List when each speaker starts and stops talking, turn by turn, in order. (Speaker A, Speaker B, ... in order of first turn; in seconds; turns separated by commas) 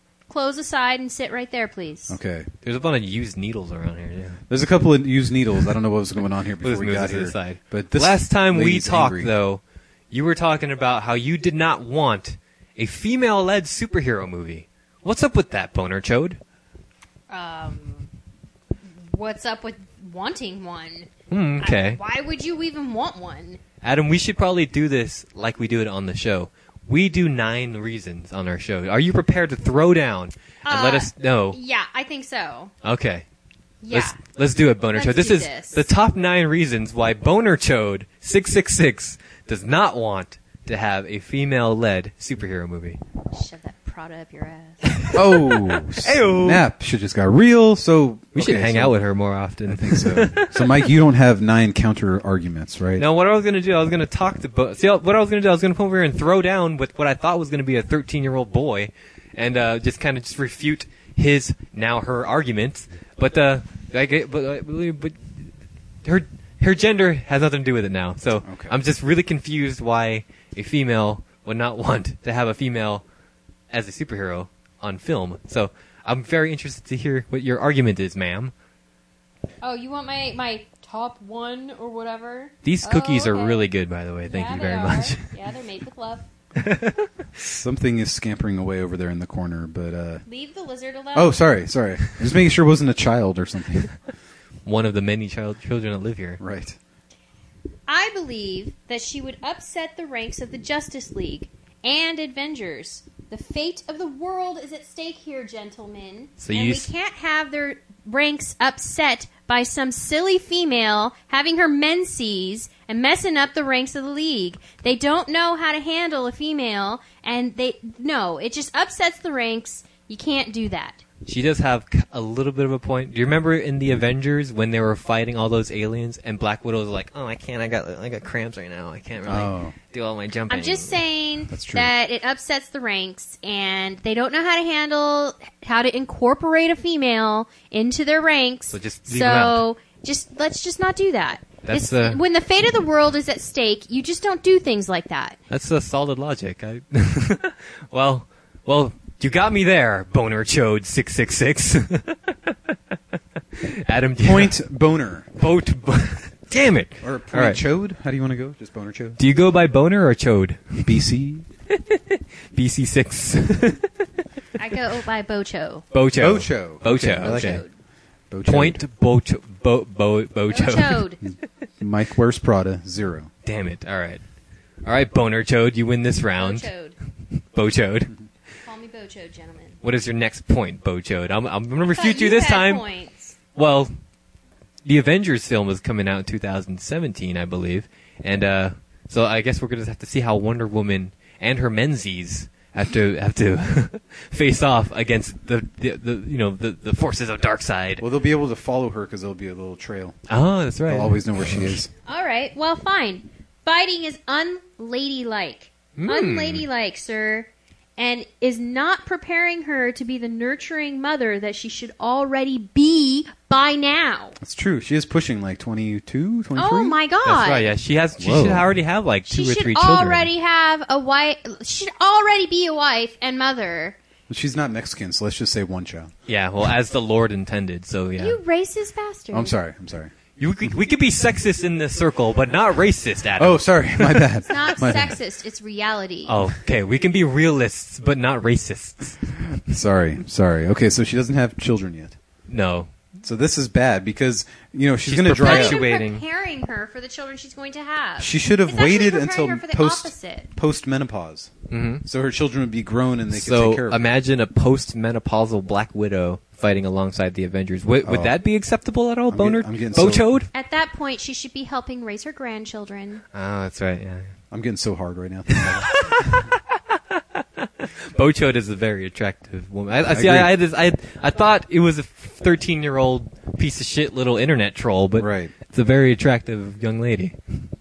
Speaker A: 0.3-2.2, Speaker B: 2.1-2.5, Speaker C: 2.6-4.4, Speaker B: 4.5-9.3, Speaker C: 6.6-16.4, Speaker A: 17.3-18.1, Speaker A: 19.1-21.1, Speaker C: 21.3-22.0, Speaker A: 21.6-23.6, Speaker C: 23.8-31.6, Speaker A: 30.6-32.7, Speaker C: 32.8-33.2, Speaker A: 33.8-34.2, Speaker C: 33.9-43.0, Speaker A: 34.9-35.8, Speaker A: 43.3-45.0, Speaker C: 44.9-46.6, Speaker B: 45.1-49.0, Speaker C: 48.4-50.9, Speaker B: 49.6-53.0, Speaker C: 53.0-65.4, Speaker C: 66.0-73.0, Speaker B: 68.4-68.8, Speaker C: 73.7-78.5, Speaker A: 79.6-83.7, Speaker C: 82.6-85.3, Speaker A: 84.3-86.2, Speaker C: 86.6-87.1, Speaker B: 87.4-90.2, Speaker A: 90.3-91.4, Speaker B: 91.1-93.9, Speaker C: 94.7-96.4, Speaker B: 96.4-96.8, Speaker A: 97.9-121.0, Speaker C: 106.4-106.9, Speaker C: 121.2-131.0, Speaker B: 129.2-129.7, Speaker A: 130.5-145.4, Speaker B: 131.5-131.9, Speaker C: 138.7-139.6, Speaker C: 141.6-142.2, Speaker C: 145.5-152.5, Speaker C: 153.6-154.6, Speaker B: 154.2-155.3, Speaker C: 155.4-157.6, Speaker B: 157.0-159.2, Speaker C: 159.2-160.9, Speaker B: 160.8-161.4, Speaker C: 161.7-163.9, Speaker A: 164.6-165.9, Speaker C: 165.9-167.6, Speaker B: 166.1-167.6, Speaker A: 167.2-167.7, Speaker B: 168.3-168.8, Speaker C: 168.4-171.0, Speaker A: 170.5-171.2, Speaker B: 171.2-173.3, Speaker C: 173.4-174.2, Speaker C: 174.8-176.7, Speaker A: 176.4-176.9, Speaker C: 177.4-178.1, Speaker A: 178.6-179.8, Speaker C: 179.8-182.9, Speaker A: 181.9-183.4, Speaker C: 183.5-183.9, Speaker C: 184.8-198.0, Speaker B: 198.0-200.2, Speaker C: 200.3-201.7, Speaker B: 200.9-201.9, Speaker A: 202.0-214.4, Speaker C: 205.9-206.7, Speaker B: 214.4-217.0, Speaker A: 216.5-217.7, Speaker C: 217.2-220.3, Speaker B: 218.2-218.7, Speaker A: 219.3-224.0, Speaker B: 224.3-226.1, Speaker C: 226.2-228.4, Speaker A: 228.2-229.5, Speaker B: 229.3-230.1, Speaker C: 230.4-234.3, Speaker B: 233.4-235.2, Speaker A: 234.4-236.4, Speaker C: 236.2-239.2, Speaker B: 239.6-242.2, Speaker C: 242.5-242.9, Speaker B: 243.2-245.8, Speaker C: 245.0-246.2, Speaker A: 245.4-250.5, Speaker B: 248.2-251.5, Speaker C: 251.7-252.0, Speaker B: 252.0-254.0, Speaker C: 253.3-260.5, Speaker B: 258.0-258.3, Speaker B: 259.3-260.2, Speaker A: 260.5-263.2, Speaker C: 263.3-264.3, Speaker B: 264.5-266.5, Speaker C: 265.6-277.7, Speaker B: 270.0-270.5, Speaker B: 275.2-275.5